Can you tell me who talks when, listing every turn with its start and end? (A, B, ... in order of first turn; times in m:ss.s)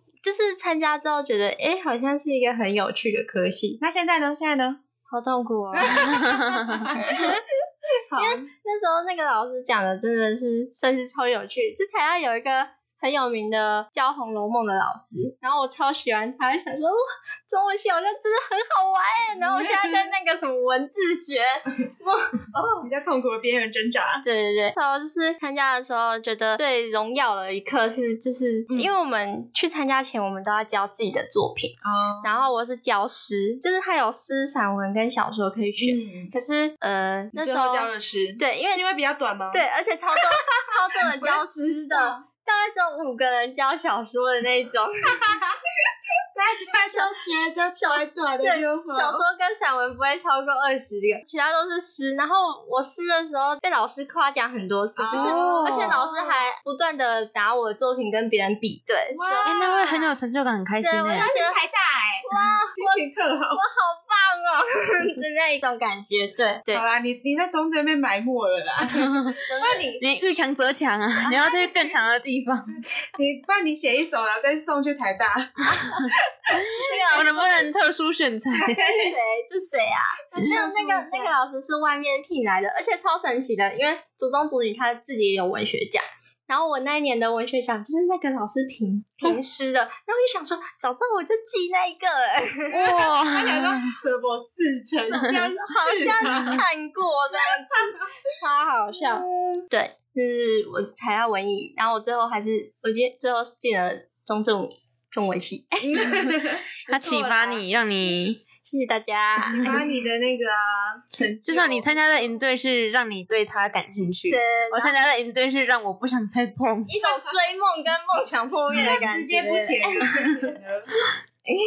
0:00.2-0:03.8 A
0:03.8-0:04.8 B
0:05.1-0:06.2 A
0:05.7-0:07.4 B
0:06.0-0:06.9 C
0:06.9-0:07.4 A
0:08.1-0:08.5 B
0:08.2-0:22.9 A
0:19.4-0:20.1 B
0:22.8-0:24.2 B
0:24.2-0:38.8 A
0:31.8-0:32.5 B
0:35.8-0:36.3 B
0:37.3-0:39.6 B
0:39.5-0:45.4 A
0:40.3-0:42.2 B
0:45.1-0:45.5 B
0:46.3-0:49.2 B
0:46.9-0:59.6 A
0:55.0-0:56.4 B
0:55.1-0:56.0 C
0:59.1-1:00.1 B
0:59.4-1:01.3 C
1:00.8-1:01.6 A
1:01.1-1:03.6 B
1:02.3-1:06.8 A
1:06.7-1:10.0 B
1:08.9-1:09.4 C
1:09.5-1:09.8 A
1:10.0-1:12.8 C
1:11.3-1:11.6 A
1:13.1-1:17.3 B
1:16.7-1:18.8 C
1:16.7-1:17.7 A
1:18.5-1:19.1 B
1:18.7-1:32.8 A
1:20.3-1:21.3 B
1:32.7-1:36.6 B
1:32.7-1:33.9 C
1:35.1-1:46.3 A
1:37.3-1:38.0 B
1:38.9-1:39.6 B
1:45.8-1:47.5 B
1:46.9-1:48.4 C
1:47.1-1:47.5 A
1:48.6-1:49.8 A
1:49.4-1:52.3 B
1:51.4-1:57.0 C
1:54.3-1:54.9 A
1:56.9-2:00.6 A
1:57.0-1:57.4 B
1:58.7-2:01.0 B